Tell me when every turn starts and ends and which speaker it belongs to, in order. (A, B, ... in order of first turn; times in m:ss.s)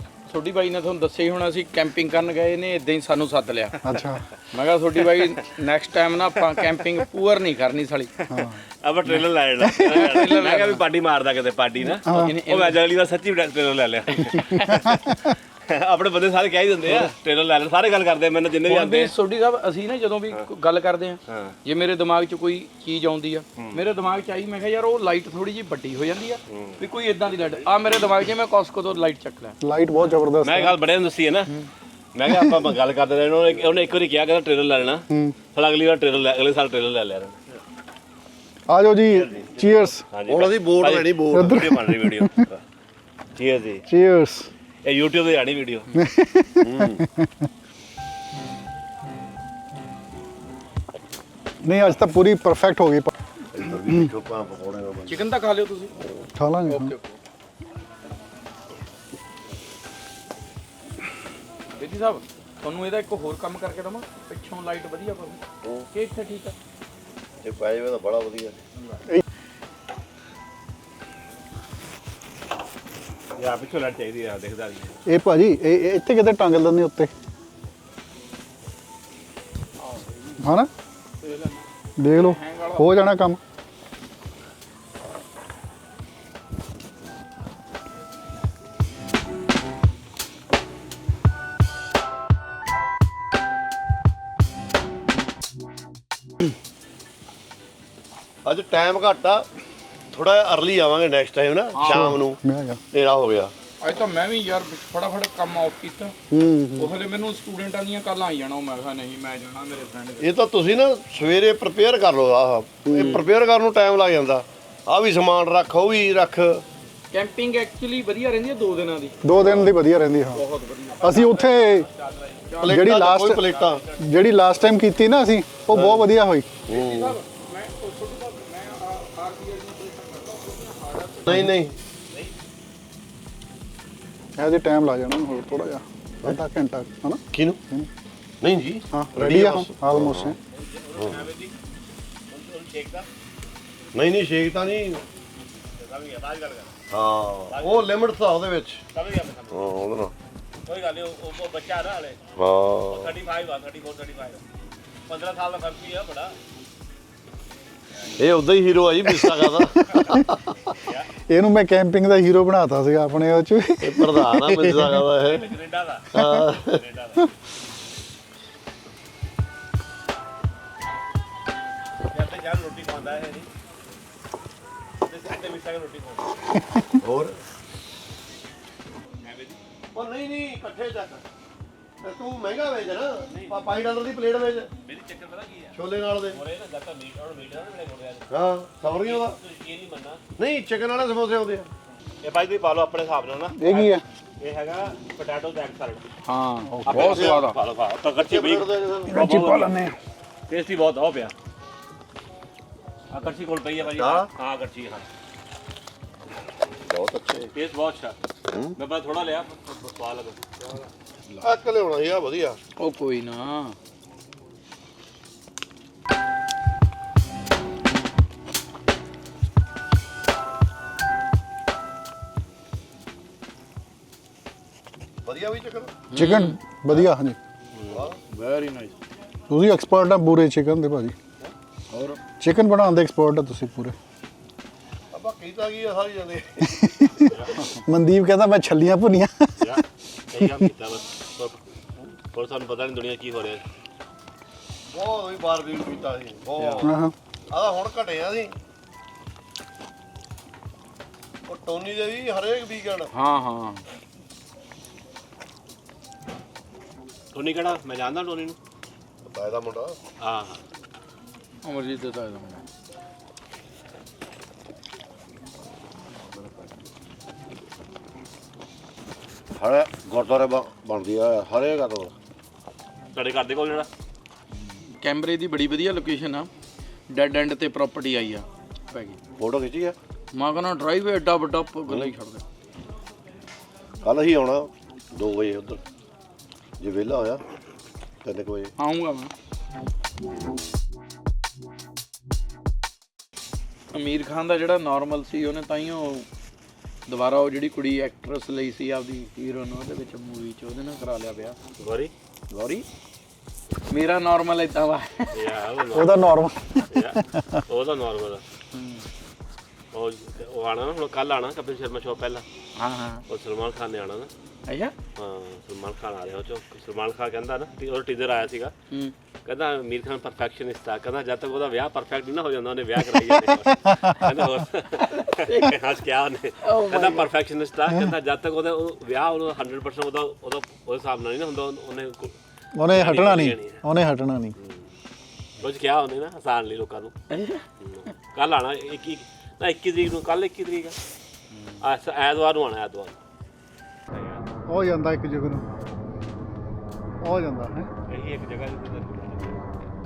0:00.3-0:03.8 A
0:03.8-0:04.3 B
0:04.5-0:08.1 A
0:08.3-0:08.6 B
0:08.8-0:19.1 C
0:09.6-0:10.2 B
0:09.8-0:10.8 A
0:11.8-0:12.8 A
0:12.1-0:12.3 B
0:14.3-0:14.6 A
0:14.8-0:15.3 B
0:18.7-0:29.6 A
0:21.3-0:21.5 C
0:23.6-0:23.8 C
0:26.5-0:26.8 C
0:29.6-0:30.8 B
0:30.4-0:31.6 C
0:32.1-0:37.4 C
0:35.1-0:35.4 B
0:38.7-0:40.0 B
0:39.1-0:42.6 C
0:40.3-0:41.6 D
0:41.3-0:42.4 B
0:43.4-0:43.8 C
0:43.8-0:44.5 B
0:44.8-0:45.9 C
0:45.9-0:47.5 B
0:46.6-0:47.0 D
0:51.6-0:53.1 B
0:53.5-0:55.2 D
0:55.1-0:56.0 A
0:56.3-0:56.9 B
0:56.7-0:57.2 A
1:01.7-1:06.5 A
1:07.4-1:08.6 D
1:13.4-1:15.0 C
1:15.0-1:17.1 B
1:19.8-1:20.4 A
1:20.4-1:20.7 B
1:21.2-1:23.0 A
1:22.0-1:23.4 B
1:38.4-1:39.5 D
1:40.1-1:42.4 D
1:41.7-1:42.2 A
1:41.9-1:42.8 B
1:42.9-1:43.5 D
1:43.8-1:46.1 A
1:46.3-1:46.9 B
1:46.8-1:50.3 A
1:50.2-1:56.6 D
1:52.8-1:53.2 B
1:57.1-1:59.2 A
1:59.2-2:00.4 B
1:59.3-1:59.7 D
2:00.3-2:01.3 A
2:00.9-2:02.6 C
2:01.0-2:01.9 B
2:02.5-2:02.8 A
2:02.6-2:03.8 D
2:02.6-2:06.5 B
2:03.3-2:04.2 C
2:05.7-2:06.0 D
2:06.7-2:07.2 D
2:06.7-2:11.4 A
2:11.2-2:11.8 D
2:12.1-2:12.4 C
2:14.4-2:17.9 B
2:17.3-2:17.6 D
2:18.4-2:20.3 D
2:18.9-2:20.4 B
2:20.5-2:21.5 C
2:21.0-2:21.2 D
2:22.3-2:23.1 C
2:23.9-2:25.0 D
2:25.8-2:26.7 C
2:26.9-2:28.8 D
2:27.5-2:27.9 C
2:28.9-2:29.7 C
2:29.5-2:30.1 D
2:30.6-2:32.2 C
2:32.4-2:33.1 D
2:32.9-2:34.4 C
2:35.1-2:36.4 C
2:38.2-2:40.4 D
2:39.0-2:40.3 B
2:40.8-2:41.1 C
2:41.3-2:45.0 B
2:43.8-2:45.5 D
2:45.2-2:46.1 C
2:46.1-2:46.8 D
2:46.6-2:47.3 C
2:52.1-2:53.5 C
2:55.0-2:56.2 C
2:56.5-2:56.9 B
2:57.0-2:57.4 D
2:59.2-2:59.6 C
2:59.9-3:01.2 D
3:02.0-3:04.7 D
3:03.2-3:03.7 C
3:04.8-3:08.3 C
3:05.7-3:06.4 D
3:08.3-3:09.4 D
3:08.8-3:10.2 C
3:10.4-3:11.7 D
3:12.2-3:16.1 C
3:13.6-3:14.0 B
3:16.2-3:17.6 A
3:16.7-3:17.1 B
3:16.9-3:19.7 C
3:17.0-3:17.4 D
3:18.2-3:19.3 D
3:19.1-3:20.0 B
3:20.5-3:21.3 C
3:23.1-3:25.1 C
3:23.8-3:24.3 D
3:26.8-3:27.5 D
3:27.5-3:28.2 C
3:28.5-3:28.7 D
3:28.7-3:30.4 C
3:31.4-3:32.6 D
3:32.8-3:33.8 A
3:45.2-3:46.0 D
3:46.1-3:46.6 A
3:46.1-3:47.4 B
3:47.7-3:48.1 C
3:47.9-3:48.2 D
3:48.3-3:48.9 A
3:49.5-3:51.1 B
3:51.9-3:52.2 A
3:52.4-3:54.0 B
3:55.1-3:56.7 D
3:56.6-3:59.8 B
3:59.6-4:01.6 C
4:02.3-4:03.6 C
4:04.9-4:06.9 D
4:06.6-4:06.9 A
4:06.8-4:07.1 B
4:07.5-4:08.5 D
4:11.5-4:13.1 D
4:13.1-4:13.8 A
4:17.3-4:18.6 C
4:19.2-4:20.0 D
4:20.2-4:20.6 C
4:21.6-4:22.6 A
4:26.3-4:26.6 D
4:29.6-4:32.1 D
4:33.1-4:33.9 C
4:35.0-4:36.5 A
4:37.1-4:39.2 A
4:39.4-4:40.0 D
4:40.3-4:42.4 A
4:41.9-4:42.1 D
4:44.0-4:45.8 D
4:46.8-4:47.4 D
4:48.2-4:48.7 D
4:48.8-4:49.3 A
4:53.9-4:56.2 A
4:57.1-5:01.6 A
5:01.8-5:02.1 C
5:02.5-5:02.8 A
5:03.9-5:05.4 A
5:05.3-5:06.4 C
5:05.9-5:07.6 B
5:06.9-5:08.4 C
5:08.7-5:09.1 A
5:09.9-5:12.4 C
5:12.8-5:13.2 A
5:13.3-5:14.3 C
5:14.7-5:14.9 A
5:15.2-5:18.7 C
5:19.4-5:32.4 C
5:23.7-5:24.2 B
5:25.0-5:25.8 A
5:26.6-5:27.3 A
5:32.7-5:34.5 B
5:32.9-5:33.8 C
5:34.6-5:34.9 C
5:35.6-5:37.1 C
5:37.3-5:37.6 A
5:37.8-5:41.0 C
5:41.5-5:41.8 A
5:41.8-5:43.2 C
5:44.1-5:44.4 C
5:44.7-5:45.6 B
5:47.2-5:47.9 B
5:48.1-5:49.6 C